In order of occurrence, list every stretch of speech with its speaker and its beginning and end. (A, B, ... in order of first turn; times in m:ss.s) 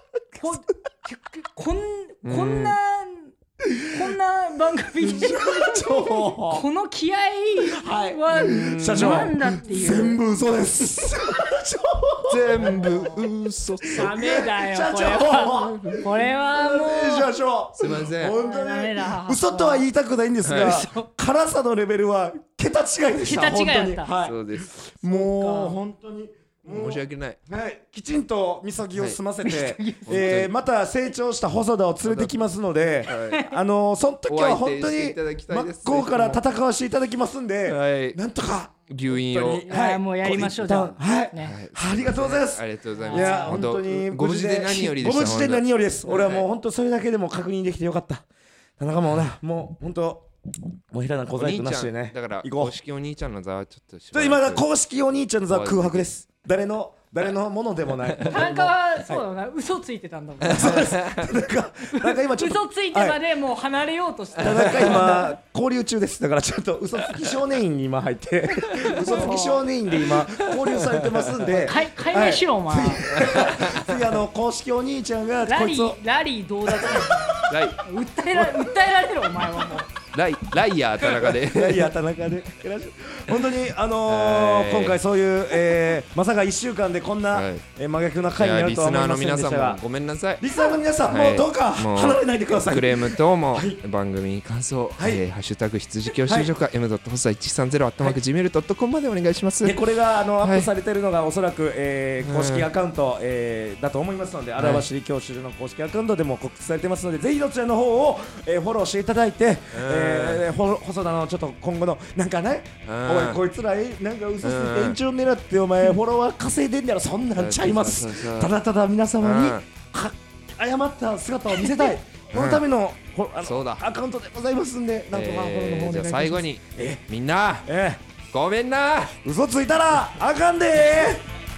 0:00.4-0:10.2 A
0:02.2-0:02.8 B
0:03.7-0:04.1 C
0:05.0-0:06.6 C
0:07.6-0:12.8 C
0:08.4-0:09.4 B
0:12.3-0:14.1 B
0:12.5-0:13.2 A
0:13.9-0:17.3 A
0:13.9-0:48.2 C
0:17.8-0:18.4 B
0:18.3-0:19.9 A
0:20.4-0:20.8 B
0:20.5-0:21.1 A
0:23.2-0:24.1 A
0:24.2-0:24.8 B
0:25.0-0:25.8 A
0:26.7-0:27.4 B
0:29.4-0:30.3 A
0:30.0-0:30.5 B
0:32.0-0:32.4 B
0:33.0-0:33.4 B
0:33.3-0:33.6 A
0:34.3-0:36.4 B
0:37.7-0:38.2 B
0:38.9-0:39.6 B
0:39.6-0:41.6 A
0:41.4-0:46.4 B
0:43.0-0:43.6 A
0:48.8-0:50.3 C
0:50.9-0:52.8 C
0:51.4-0:54.6 B
0:54.1-0:59.2 C
0:55.5-0:56.1 B
0:58.2-1:01.0 A
1:00.4-1:03.2 C
1:00.5-1:01.2 B
1:02.0-1:05.3 A
1:04.4-1:16.0 C
1:08.9-1:09.6 A
1:10.5-1:11.6 B
1:11.5-1:13.4 A
1:13.1-1:14.0 B
1:15.5-1:19.9 A
1:16.7-1:17.5 C
1:17.5-1:17.8 B
1:18.3-1:18.7 C
1:20.1-1:21.9 B
1:21.0-1:29.8 C
1:24.1-1:25.0 B
1:27.3-1:27.6 B
1:28.4-1:30.4 B
1:30.4-1:33.8 C
1:31.1-1:39.8 B
1:35.0-1:35.2 C
1:36.1-1:36.5 C
1:39.6-2:07.0 C
1:40.4-1:40.7 B
1:42.2-1:42.7 B
1:44.6-1:44.8 B
1:49.7-1:50.4 B
1:52.8-1:53.4 B
1:54.4-1:55.0 B
1:57.4-1:58.5 B
1:59.2-1:59.6 B
2:02.3-2:02.6 B
2:03.4-2:03.8 B
2:05.1-2:07.7 B
2:07.6-2:08.0 C
2:08.3-2:09.2 B
2:09.2-2:11.3 C